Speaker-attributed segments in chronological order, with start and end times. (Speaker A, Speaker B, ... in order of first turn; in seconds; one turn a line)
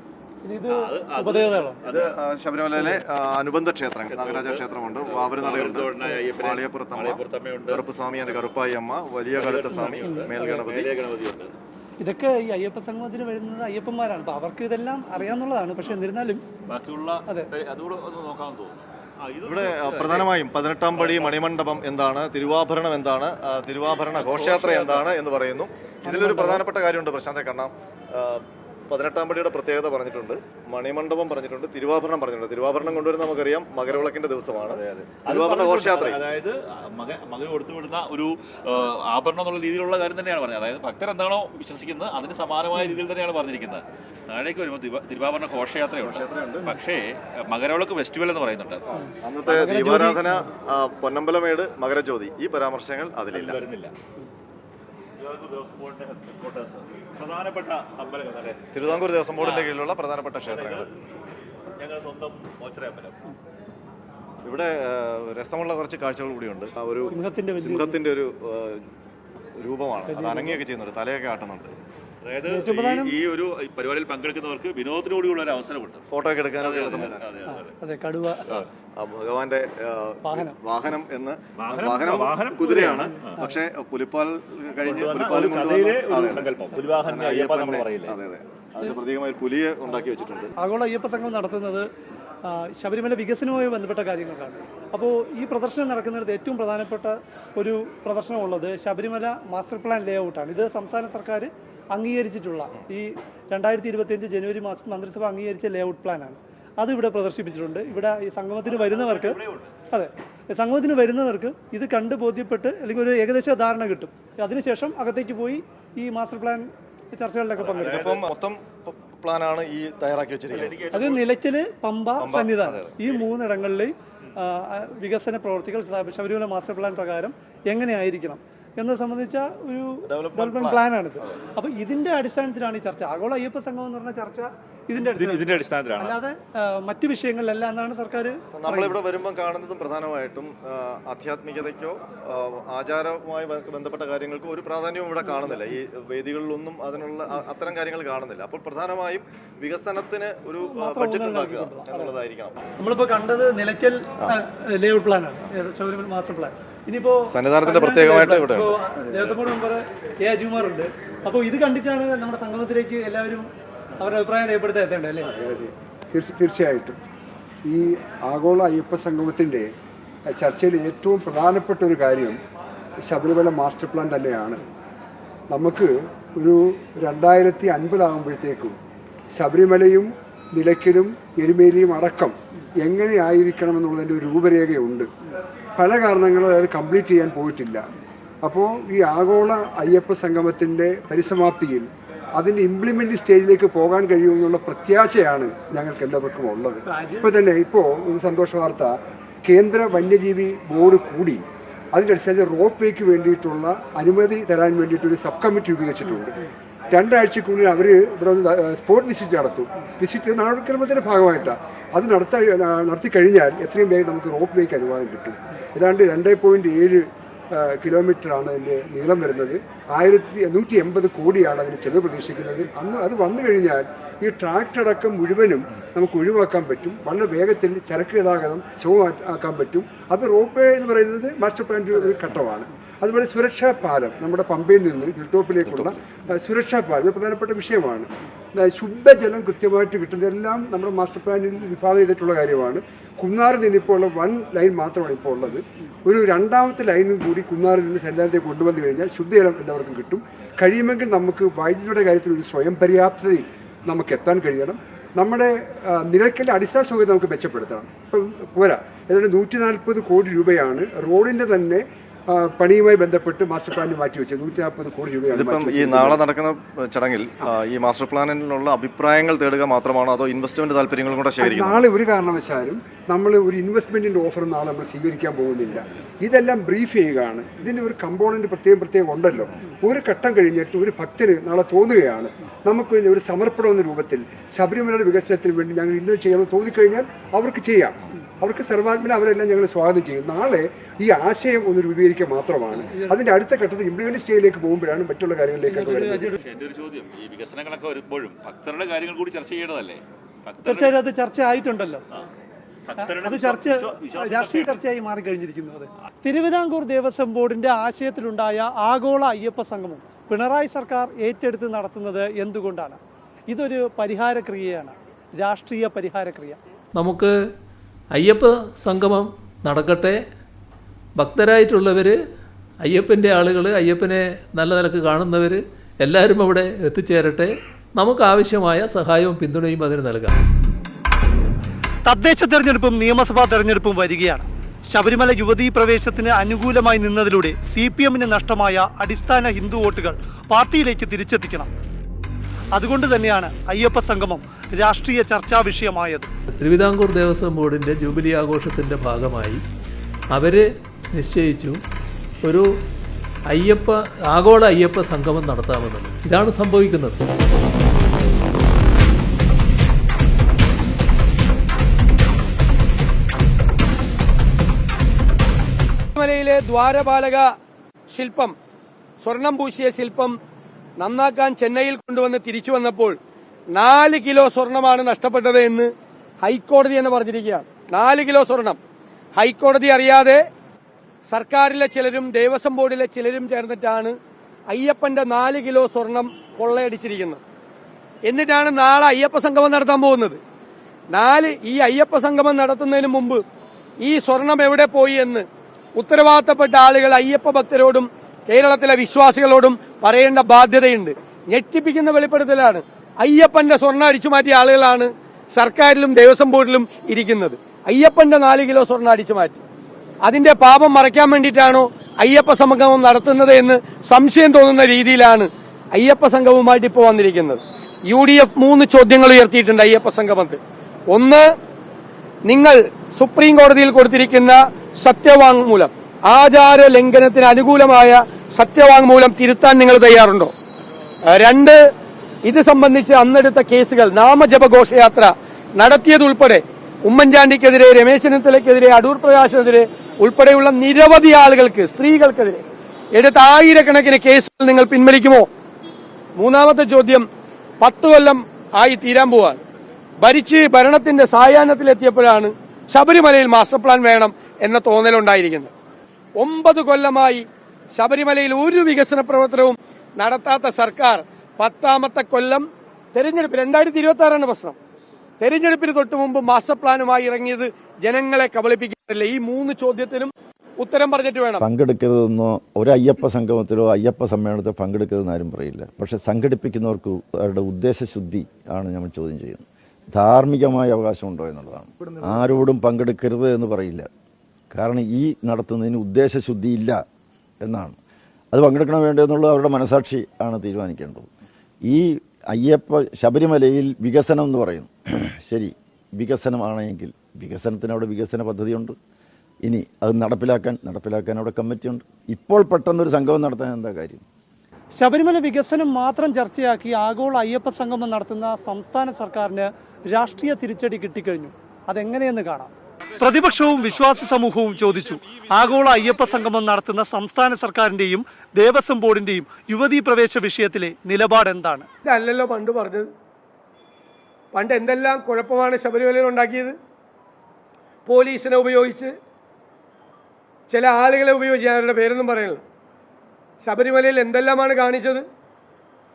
Speaker A: 0.4-1.8
Speaker B: 0.7-2.2
Speaker C: 1.9-10.9
Speaker B: 4.1-8.5
Speaker B: 9.3-11.5
Speaker A: 9.7-10.3
Speaker A: 12.0-16.4
Speaker B: 16.7-20.3
Speaker C: 19.4-36.2
Speaker B: 20.9-21.4
Speaker B: 24.2-25.1
Speaker A: 26.1-26.6
Speaker B: 34.7-49.0
Speaker C: 46.0-46.7
Speaker C: 49.2-53.6
Speaker A: 49.5-50.2
Speaker B: 53.3-53.9
Speaker B: 55.2-59.8
Speaker C: 58.7-60.9
Speaker B: 60.5-60.9
Speaker B: 61.8-63.2
Speaker C: 64.5-68.8
Speaker A: 67.1-68.0
Speaker C: 69.6-71.7
Speaker A: 70.1-70.6
Speaker B: 72.2-76.0
Speaker A: 72.4-73.2
Speaker C: 76.1-77.2
Speaker B: 76.6-77.8
Speaker A: 77.5-78.6
Speaker C: 79.0-90.5
Speaker A: 80.2-80.6
Speaker B: 81.6-83.4
Speaker A: 82.8-83.5
Speaker B: 84.8-88.2
Speaker A: 90.6-91.9
Speaker A: 92.5-109.4
Speaker B: 108.7-109.7
Speaker A: 109.9-118.1
Speaker B: 117.6-118.2
Speaker C: 117.7-120.8
Speaker B: 120.5-121.3
Speaker A: 120.9-139.0
Speaker C: 122.2-122.9
Speaker C: 130.1-131.4
Speaker B: 135.0-136.2
Speaker C: 138.5-152.6
Speaker A: 150.7-152.1
Speaker A: 152.8-163.5
Speaker C: 157.3-158.8
Speaker A: 164.0-165.3
Speaker D: 165.3-167.0
Speaker D: 167.7-169.7
Speaker D: 170.3-172.4
Speaker D: 173.1-174.6
Speaker D: 175.5-178.8
Speaker D: 179.3-185.1
Speaker D: 185.8-187.9
Speaker D: 188.4-206.4
Speaker A: 196.9-197.3
Speaker D: 206.9-266.2
Speaker C: 265.3-271.8
Speaker D: 271.4-296.4
Speaker A: 292.9-293.1
Speaker A: 295.7-296.4
Speaker B: 296.4-301.0
Speaker A: 300.6-302.0
Speaker B: 302.9-304.8
Speaker A: 303.0-316.6
Speaker E: 317.0-317.3
Speaker E: 318.1-320.2
Speaker E: 321.2-322.2
Speaker E: 322.8-330.4
Speaker A: 332.1-341.7
Speaker A: 342.7-346.3
Speaker E: 346.6-349.6
Speaker E: 350.3-351.8
Speaker E: 353.5-357.3
Speaker F: 366.1-367.5
Speaker F: 368.1-368.5
Speaker F: 369.2-370.4
Speaker F: 371.0-373.2
Speaker F: 373.7-375.9
Speaker F: 376.4-378.8
Speaker F: 379.4-380.4
Speaker F: 381.3-384.1
Speaker F: 384.7-387.4
Speaker F: 388.3-390.4
Speaker F: 391.1-393.4
Speaker F: 394.0-395.5
Speaker F: 396.0-409.6
Speaker F: 410.3-420.6
Speaker F: 421.1-421.5
Speaker F: 422.5-430.5
Speaker F: 431.3-431.8
Speaker F: 432.4-445.5
Speaker F: 446.4-447.3
Speaker F: 447.8-449.6
Speaker F: 450.2-455.7
Speaker F: 456.4-457.4
Speaker F: 457.9-464.8
Speaker F: 465.4-471.6
Speaker G: 471.6-484.1
Speaker G: 484.7-487.0
Speaker G: 487.6-488.0
Speaker G: 488.5-491.3
Speaker G: 491.9-499.0
Speaker G: 499.6-504.2
Speaker A: 505.0-521.9
Speaker F: 522.1-523.1
Speaker F: 524.5-526.8
Speaker F: 528.1-529.1
Speaker F: 530.7-532.6
Speaker F: 533.6-535.3